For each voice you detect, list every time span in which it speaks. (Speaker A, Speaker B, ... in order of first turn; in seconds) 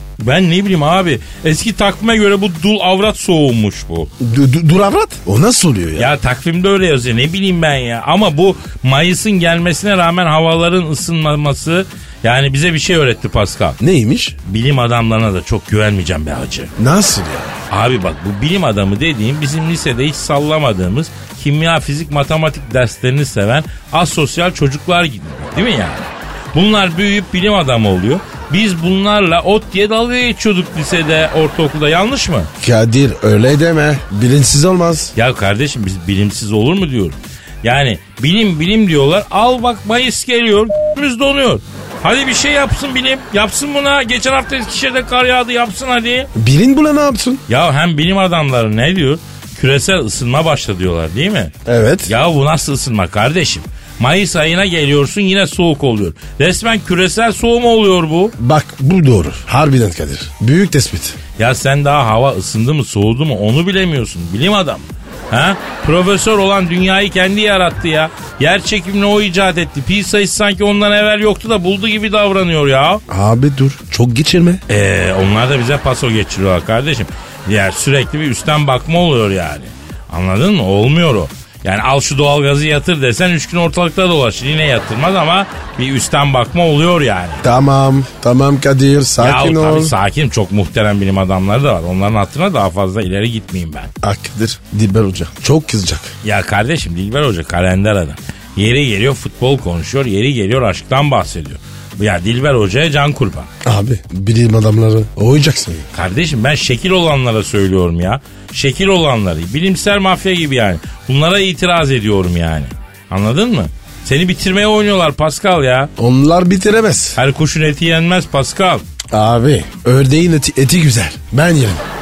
Speaker A: 0.2-4.1, 6.0-13.8, 14.4-16.7, 17.7-32.5, 35.1-46.3, 47.5-51.5, 52.1-58.3, 61.4-73.0, 74.7-87.4, 89.2-93.9, 96.2-103.5, 105.9-115.9, 117.2-118.8
Speaker B: 4.2-6.1, 13.8-14.3, 16.8-17.5, 32.6-35.1, 46.3-47.4, 51.6-52.1, 58.4-61.2, 73.1-74.6, 87.4-89.9, 94.0-96.1, 103.6-105.9, 116.0-117.2, 119.1-121.8